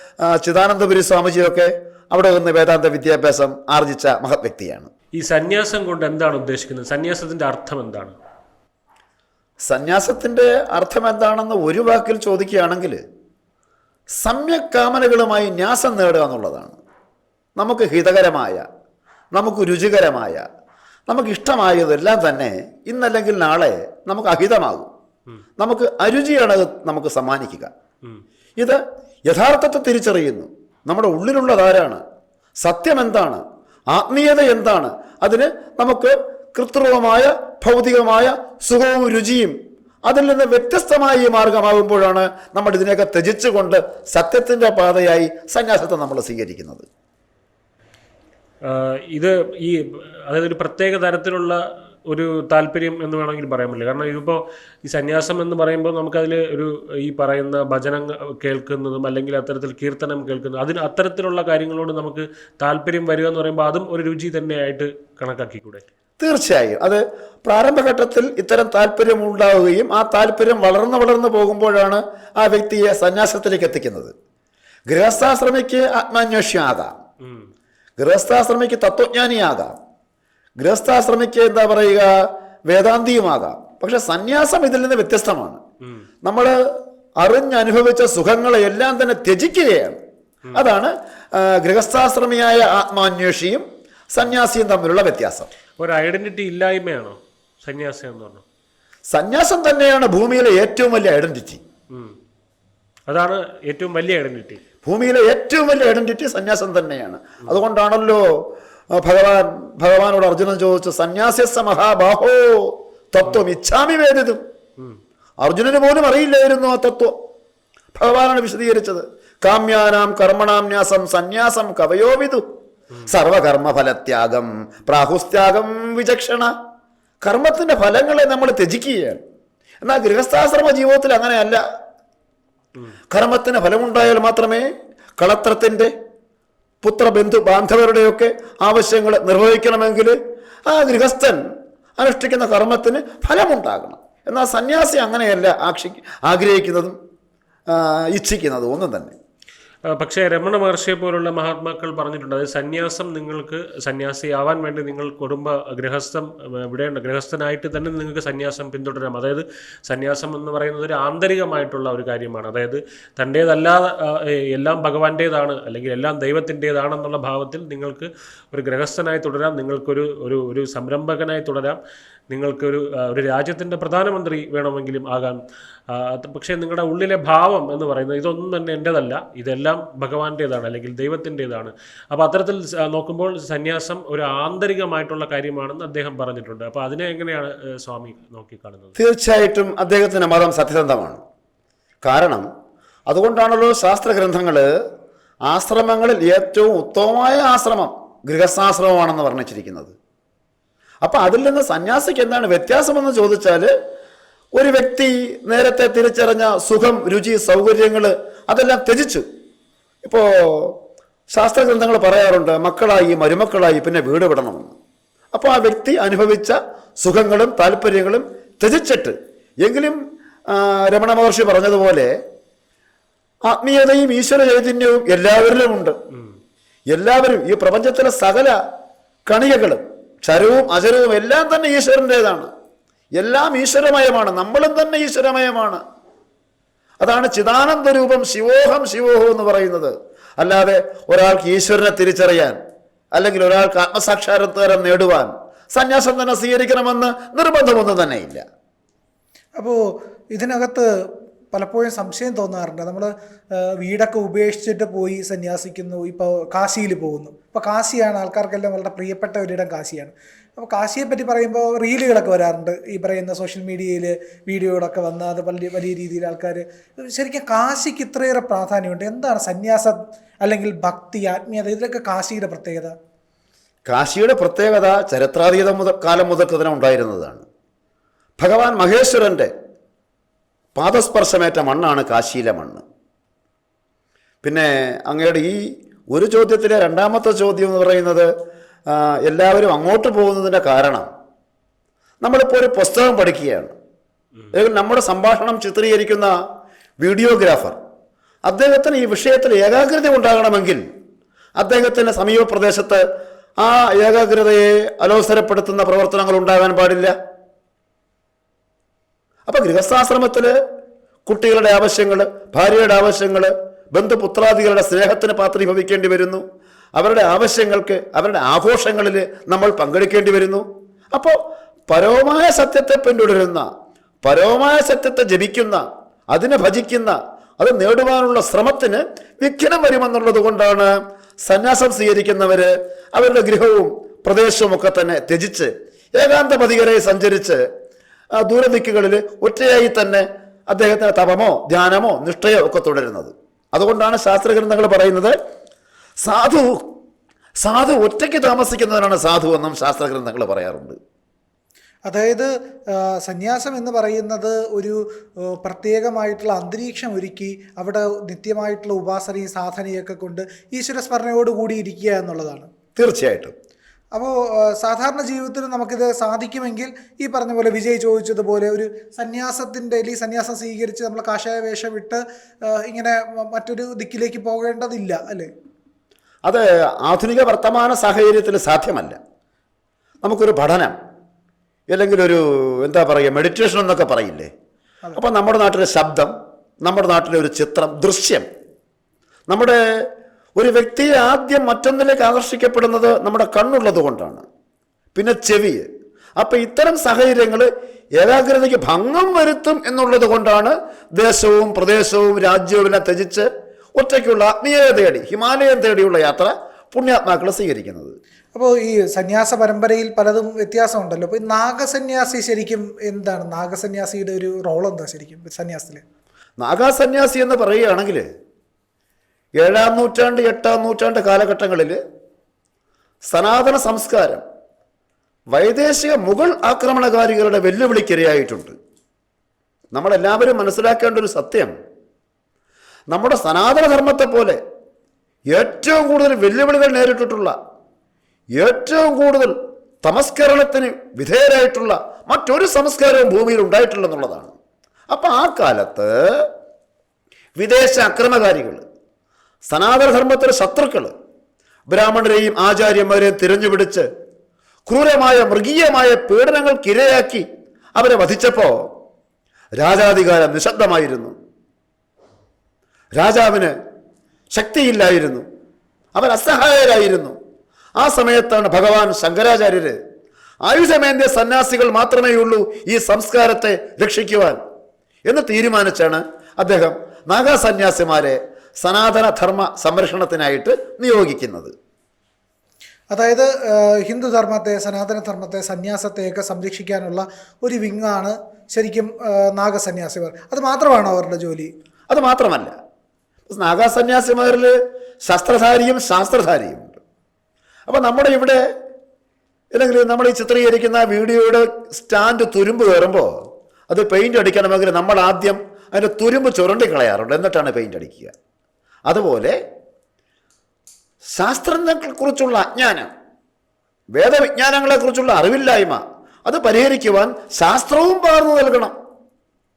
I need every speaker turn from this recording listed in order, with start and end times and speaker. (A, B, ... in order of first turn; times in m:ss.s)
0:00.2-0:04.9 A
0:05.2-0:08.1 B
0:09.7-0:13.0 A
0:14.2-0:16.8 A
0:17.6-0:18.6 A
0:19.3-0:20.4 A
0:21.1-0:24.9 A
0:25.6-0:27.7 A
0:28.6-0:32.0 A
0:32.6-0:39.5 A
0:40.0-0:46.8 A
0:48.6-1:05.8 B
1:06.2-1:14.1 A
1:14.9-1:16.9 A
1:18.0-1:19.7 A
1:20.6-1:22.1 A
1:22.7-1:25.6 A
1:26.2-1:26.6 A
1:27.2-1:30.0 A
1:30.5-1:35.5 A
1:35.8-1:38.4 B
1:39.1-1:41.6 A
1:43.1-1:44.6 B
1:44.8-1:48.2 A
1:49.0-1:54.4 A
1:55.4-1:57.1 A
1:57.9-2:02.4 A
2:03.0-2:06.5 A
2:07.2-2:09.2 A
2:09.8-2:11.6 A
2:13.1-2:14.7 A
2:15.2-2:15.9 A
2:16.8-2:21.4 A
2:22.0-2:27.0 A
2:27.7-2:29.1 A
2:29.9-2:51.8 B
2:52.3-2:55.4 B
2:55.9-3:08.9 B
3:09.0-3:11.2 A
3:12.0-3:12.5 A
3:13.1-3:14.7 A
3:15.5-3:19.9 A
3:21.0-3:23.7 A
3:24.5-3:29.2 A
3:30.0-3:30.8 A
3:31.3-3:34.7 A
3:35.3-3:42.1 A
3:43.5-3:46.0 A
3:46.9-3:48.5 A
3:49.3-3:52.5 A
3:53.2-3:55.8 A
3:57.0-4:02.6 A
4:03.1-4:08.4 A
4:10.3-4:10.9 C
4:11.5-4:32.9 C
4:33.9-4:37.4 A
4:38.4-4:39.5 A
4:40.8-4:42.8 A
4:44.4-4:45.6 A
4:46.1-4:48.3 A
4:48.9-4:51.1 A
4:52.2-4:53.7 A
4:54.5-4:56.3 A
4:57.0-4:57.8 A
4:58.4-5:00.8 A
5:01.6-5:03.0 A
5:03.6-5:07.1 A
5:09.5-5:10.5 A
5:11.2-5:16.4 A
5:17.0-5:21.4 A
5:21.9-5:23.7 A
5:24.2-5:30.9 A
5:31.4-5:37.6 A
5:38.4-5:45.4 A
5:46.2-5:46.8 A
5:47.6-5:51.0 A
5:52.1-5:55.0 C
5:55.6-6:02.7 C
6:03.0-6:03.5 A
6:04.1-6:15.5 C
6:16.4-6:19.2 A
6:20.2-6:21.0 A
6:21.9-6:24.5 A
6:25.2-6:26.3 A
6:26.8-6:28.4 A
6:29.5-6:29.8 A
6:30.6-6:34.4 A
6:35.1-6:35.9 A
6:36.4-6:48.2 A
6:48.5-6:56.0 C
6:56.6-6:58.2 A
6:59.6-7:02.0 A
7:03.3-7:04.4 A
7:05.5-7:08.7 A
7:09.9-7:11.7 A
7:13.1-7:14.6 A
7:15.5-7:17.5 A
7:18.6-7:24.5 A
7:25.1-7:26.4 A
7:27.6-7:28.8 A
7:29.7-7:31.1 A
7:31.9-7:34.1 A
7:34.9-7:37.4 A
7:38.0-7:38.8 A
7:39.8-7:41.3 A
7:43.2-7:43.7 A
7:44.5-7:45.4 A
7:46.1-7:47.4 A
7:48.0-7:50.0 A
7:50.6-7:54.6 A
7:55.2-8:01.7 A
8:03.1-8:11.7 C
8:12.1-8:12.8 A
8:13.5-8:14.7 A
8:15.2-8:17.0 A
8:17.9-8:18.6 A
8:19.7-8:23.3 A
8:23.9-8:28.3 A
8:29.1-8:29.6 A
8:31.3-8:33.1 A
8:34.2-8:38.9 A